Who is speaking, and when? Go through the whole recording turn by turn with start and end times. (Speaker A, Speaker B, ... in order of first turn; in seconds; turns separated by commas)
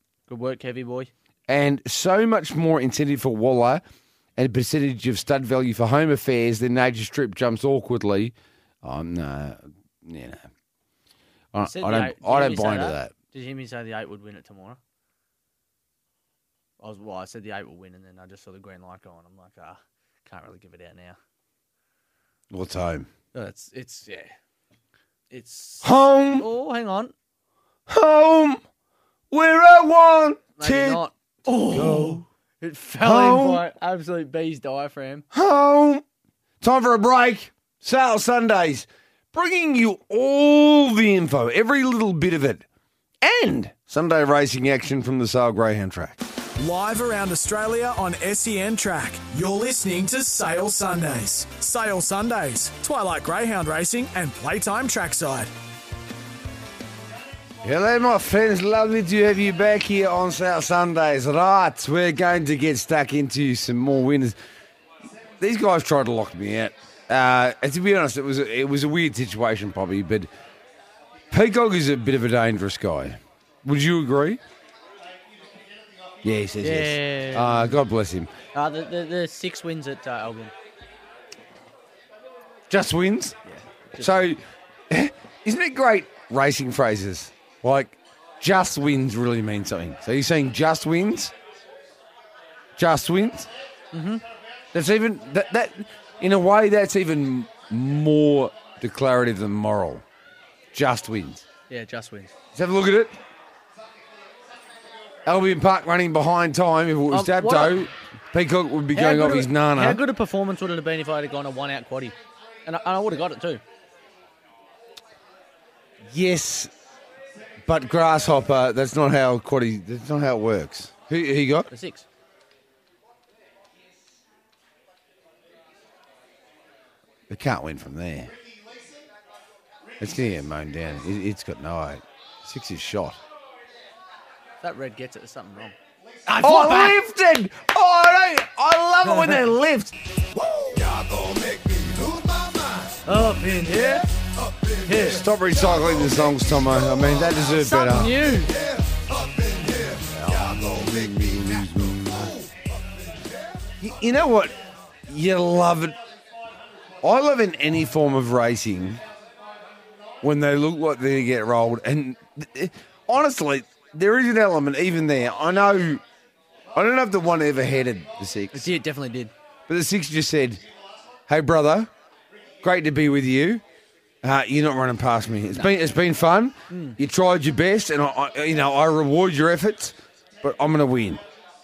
Speaker A: 0.3-1.1, Speaker B: 1.5-3.8, Speaker B: 4.4-10.4, Speaker B: 11.5-13.1, Speaker A: 11.6-14.8, Speaker A: 16.8-21.2, Speaker B: 22.5-23.1, Speaker A: 23.3-24.3, Speaker A: 25.3-27.1, Speaker B: 25.8-26.5, Speaker B: 27.9-28.6, Speaker B: 29.3-31.0, Speaker A: 30.6-35.2, Speaker B: 31.7-32.2, Speaker B: 33.0-33.6, Speaker B: 35.3-36.0, Speaker B: 36.6-42.6, Speaker B: 43.2-46.2, Speaker C: 46.6-55.5, Speaker B: 57.6-64.4, Speaker B: 65.4-70.3, Speaker B: 71.3-74.4, Speaker B: 76.2-78.3, Speaker A: 76.6-77.8, Speaker A: 78.5-80.5, Speaker B: 82.7-83.4, Speaker A: 83.5-84.2, Speaker B: 84.0-91.3, Speaker B: 92.8-93.5, Speaker A: 93.9-94.2, Speaker B: 94.7-100.0, Speaker B: 100.7-101.5, Speaker A: 101.7-102.3, Speaker B: 102.5-103.2, Speaker B: 105.2-110.0, Speaker A: 107.1-107.8, Speaker A: 108.9-113.6, Speaker B: 116.0-116.7, Speaker B: 117.6-121.7, Speaker A: 121.7-122.0, Speaker B: 127.3-128.3, Speaker B: 130.0-133.2, Speaker A: 134.6-135.8, Speaker A: 136.3-137.0, Speaker B: 136.4-139.9, Speaker A: 139.1-139.4, Speaker B: 140.5-142.5, Speaker A: 143.1-144.1, Speaker A: 144.8-145.2, Speaker B: 144.9-148.2, Speaker A: 147.5-148.5, Speaker B: 149.8-152.4, Speaker B: 153.8-156.0, Speaker B: 157.0-159.0, Speaker B: 160.2-166.0, Speaker B: 166.7-168.7, Speaker A: 168.5-169.3, Speaker B: 169.7-170.6, Speaker B: 171.3-171.9, Speaker B: 172.6-173.6, Speaker B: 174.2-181.2, Speaker A: 176.7-177.0